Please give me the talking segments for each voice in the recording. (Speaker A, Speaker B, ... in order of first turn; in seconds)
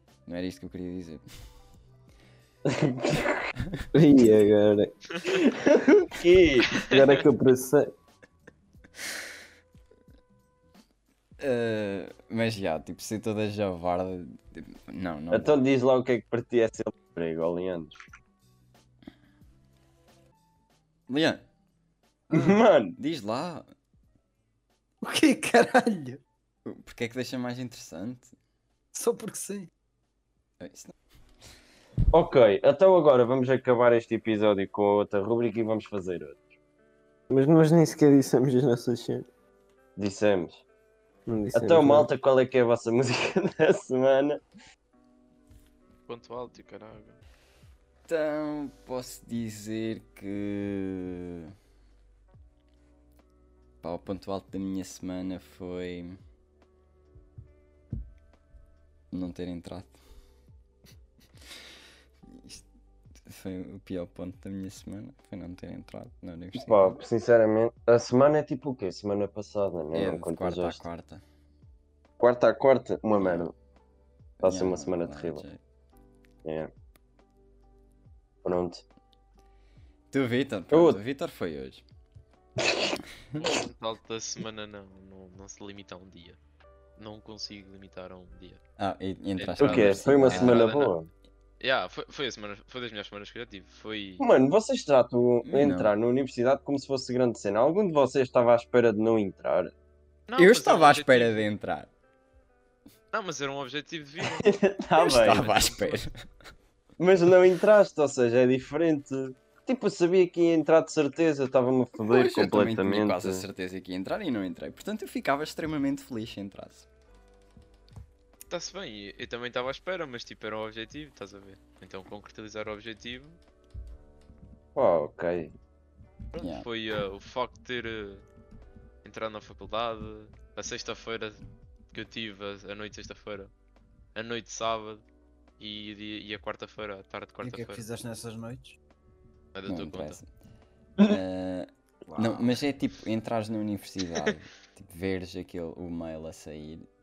Speaker A: 0.2-1.2, 11.4-15.6, 21.1-21.4, 23.0-23.7, 26.6-28.3, 30.6-30.9, 48.1-51.5, 53.8-56.2, 59.1-60.0, 62.3-62.6, 63.2-67.0, 69.9-71.2, 73.1-73.5, 74.4-75.6, 80.1-81.8, 88.8-90.7, 95.4-95.9, 100.3-101.9, 105.0-106.2, 112.0-116.9, 126.4-126.7, 139.7-140.3, 141.0-146.8
Speaker B: 2.6-3.5, 5.3-6.9, 15.3-17.9, 22.3-23.0, 32.1-36.5, 40.0-40.6, 41.5-44.4, 66.5-70.8, 72.2-73.5, 74.4-75.4, 76.4-76.7, 78.4-78.8, 80.7-81.0, 89.6-91.1, 94.2-99.7, 104.4-105.6, 107.0-113.4, 124.7-125.5
Speaker C: 3.9-4.9, 6.8-7.9, 37.3-39.3, 41.3-42.1
Speaker D: 6.7-7.1, 46.1-47.2, 83.4-86.4, 87.0-88.6, 89.4-90.9, 91.6-94.2, 100.3-101.5, 103.1-104.5, 105.2-106.1, 118.5-123.4, 126.3-128.2, 129.0-131.4, 131.9-133.5, 134.1-135.0, 135.6-137.8, 139.5-140.2
Speaker E: 22.3-22.6, 25.0-26.2, 28.9-29.7, 137.4-138.8, 142.1-142.6